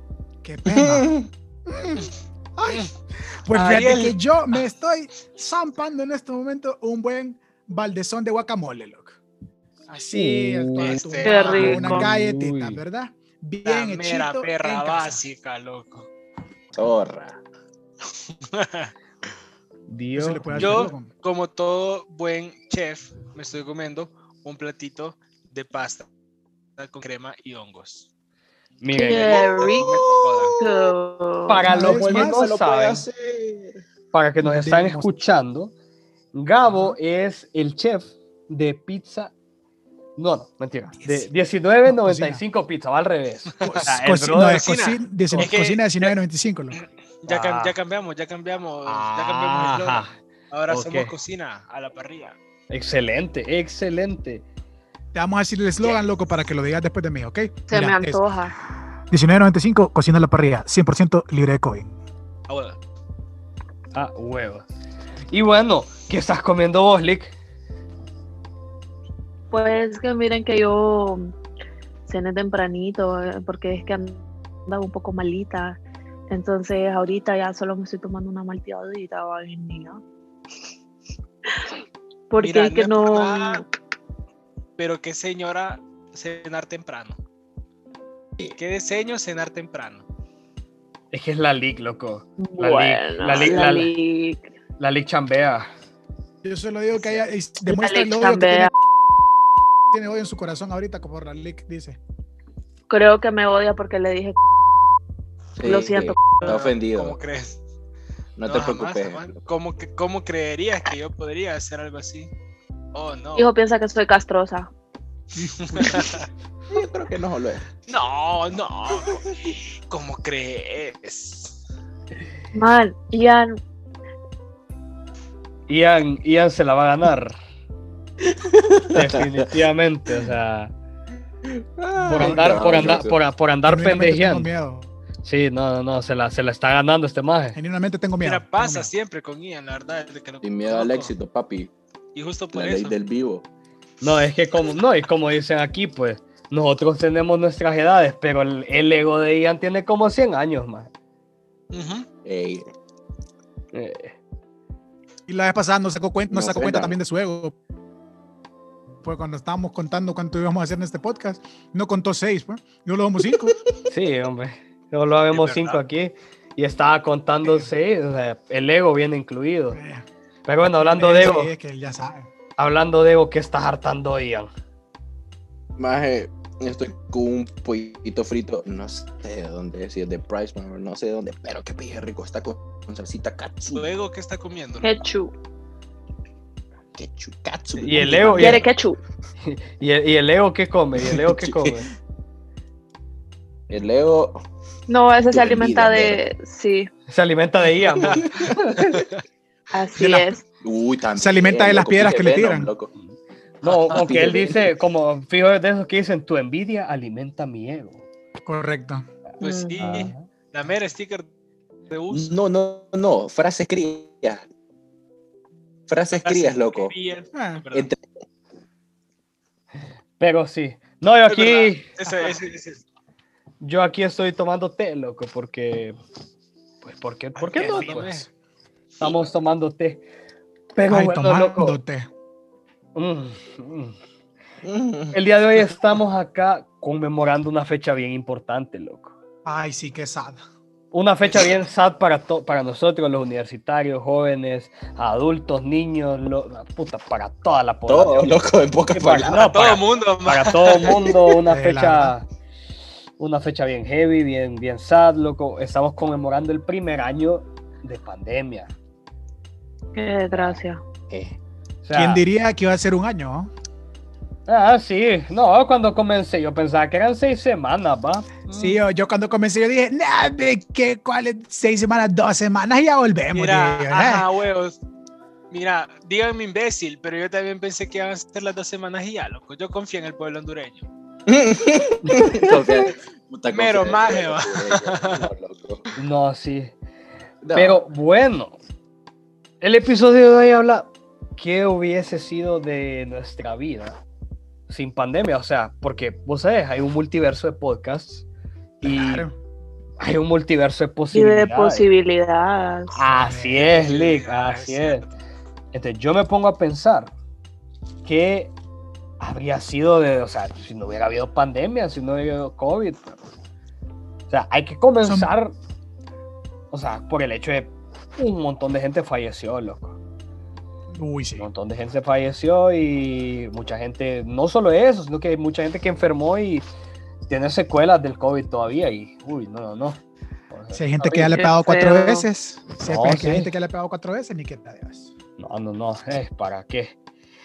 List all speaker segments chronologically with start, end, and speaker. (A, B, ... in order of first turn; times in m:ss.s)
0:00.4-0:02.9 A
0:00.7-0:01.2 B
0:03.4-0:09.2 A
0:03.5-0:04.2 C
0:09.9-0:15.2 A
0:10.1-0:12.8 D
0:10.8-0:11.8 C
0:11.2-0:12.1 E
0:13.6-0:16.1 C
0:16.7-0:17.4 B
0:18.5-0:18.9 C
0:19.9-0:20.8 D
0:20.1-0:21.1 A
0:20.5-0:26.0 C
0:26.8-0:28.1 C
0:28.8-0:29.4 D
0:28.9-0:29.9 E
0:29.2-0:30.6 C
0:29.8-0:30.6 B
0:30.6-0:31.6 E
0:31.5-0:33.0 D
0:31.6-0:32.4 A
0:31.7-0:33.8 B
0:34.1-0:35.7 D
0:34.4-0:35.1 A
0:36.3-0:39.3 D
0:36.6-0:37.0 A
0:40.2-0:44.5 D
0:41.0-0:41.3 A
0:41.8-0:42.4 A
0:43.6-0:46.8 A
0:43.6-0:46.1 C
0:46.7-0:52.4 C
0:47.3-0:47.7 D
0:48.8-0:50.1 D
0:50.7-0:51.1 D
0:52.7-0:54.4 D
0:55.1-0:58.2 A
0:57.7-0:58.5 E
0:59.1-1:02.0 A
1:02.5-1:02.8 C
1:03.9-1:04.6 D
1:05.3-1:07.3 D
1:09.5-1:11.3 E
1:12.1-1:20.0 E
1:22.3-1:23.6 E
1:22.4-1:23.6 C
1:24.8-1:27.2 C
1:28.6-1:30.0 C
1:31.1-1:33.9 D
1:32.4-1:34.5 E
1:33.3-1:33.7 B
1:34.8-1:35.7 D
1:36.4-1:38.7 A
1:37.7-1:38.7 E
1:39.9-1:42.0 A
1:42.9-1:44.4 E
1:45.6-1:47.2 B
1:45.6-1:46.4 E
1:46.4-1:47.6 C
1:48.4-1:49.4 B
1:48.4-1:52.3 C
1:52.9-1:53.5 C
1:53.4-1:54.7 E
1:55.4-1:56.3 C
1:55.6-1:56.2 A
1:56.7-1:57.7 B
1:57.9-2:01.6 C
2:02.5-2:03.6 E
2:05.7-2:07.4 D
2:08.2-2:09.4 B
2:08.9-2:10.7 D
2:11.5-2:13.2 B
2:11.9-2:12.6 A
2:12.0-2:14.5 D
2:13.6-2:14.9 A
2:15.2-2:17.6 D
2:17.5-2:18.9 A
2:18.2-2:21.1 C
2:20.4-2:21.7 B
2:22.1-2:22.9 C
2:22.5-2:23.4 B
2:24.0-2:30.9 D
2:31.7-2:32.1 C
2:32.2-2:32.6 B
2:33.7-2:34.2 D
2:35.3-2:37.5 A
2:36.3-2:36.9 B
2:39.0-2:43.5 A
2:43.9-2:49.8 D
2:45.3-2:45.8 C
2:47.4-2:47.7 A
2:49.7-2:50.0 A
2:50.4-2:51.5 D
2:50.6-2:52.3 A
2:52.6-2:54.5 D
2:55.8-3:03.9 B
3:03.7-3:04.9 C
3:04.8-3:05.3 E
3:07.0-3:08.7 B
3:07.8-3:08.6 D
3:08.4-3:09.0 E
3:09.4-3:11.9 D
3:11.0-3:11.8 B
3:13.7-3:14.4 B
3:14.9-3:16.9 E
3:15.3-3:16.2 B
3:17.1-3:19.0 D
3:18.1-3:18.6 B
3:19.7-3:20.4 E
3:20.0-3:20.4 A
3:20.6-3:22.9 B
3:21.2-3:22.7 A
3:23.0-3:28.0 D
3:23.6-3:24.7 B
3:23.9-3:24.2 C
3:28.4-3:29.1 A
3:29.4-3:29.8 E
3:29.4-3:31.3 C
3:29.8-3:30.3 D
3:31.9-3:32.3 C
3:32.1-3:34.4 B
3:35.9-3:36.9 B
3:36.1-3:37.9 C
3:37.3-3:37.6 A
3:37.7-3:38.0 B
3:40.2-3:41.9 D
3:41.3-3:42.8 C
3:43.6-3:46.0 D
3:46.8-3:48.2 D
3:47.4-3:48.3 C
3:47.6-3:48.1 A
3:49.0-3:50.0 D
3:50.7-3:51.8 D
3:50.9-3:52.1 A
3:52.9-3:53.9 D
3:54.6-3:55.2 B
3:55.1-3:59.1 D
3:59.4-4:00.4 A
4:00.9-4:12.2 D
4:07.9-4:09.6 B
4:09.3-4:11.0 C
4:11.4-4:12.2 A
4:13.2-4:18.7 D
4:19.9-4:20.8 E
4:20.3-4:20.6 D
4:21.1-4:21.3 B
4:21.8-4:22.2 D
4:21.9-4:23.5 A
4:24.5-4:28.8 D
4:28.5-4:34.2 A
4:33.3-4:34.8 C
4:35.5-4:40.8 C
4:41.3-4:45.9 B
4:42.0-4:42.4 D
4:43.5-4:45.2 C
4:46.0-4:46.7 D
4:47.4-4:47.8 B
4:47.5-4:48.5 D
4:49.6-4:54.0 D
4:54.7-4:58.2 D
4:58.8-4:59.3 D
4:58.8-4:59.4 A
5:00.0-5:01.8 D
5:01.1-5:02.9 E
5:02.9-5:05.0 D
5:03.1-5:03.6 A
5:03.5-5:05.1 C
5:05.7-5:07.1 D
5:08.0-5:08.5 D
5:09.2-5:13.2 D
5:14.3-5:15.5 D
5:15.0-5:15.3 A
5:16.7-5:20.0 D
5:20.9-5:21.5 A
5:21.4-5:26.6 D
5:27.3-5:30.0 D
5:30.5-5:30.8 D
5:30.7-5:35.1 A
5:31.0-5:32.2 E
5:32.9-5:33.5 D
5:35.4-5:36.9 D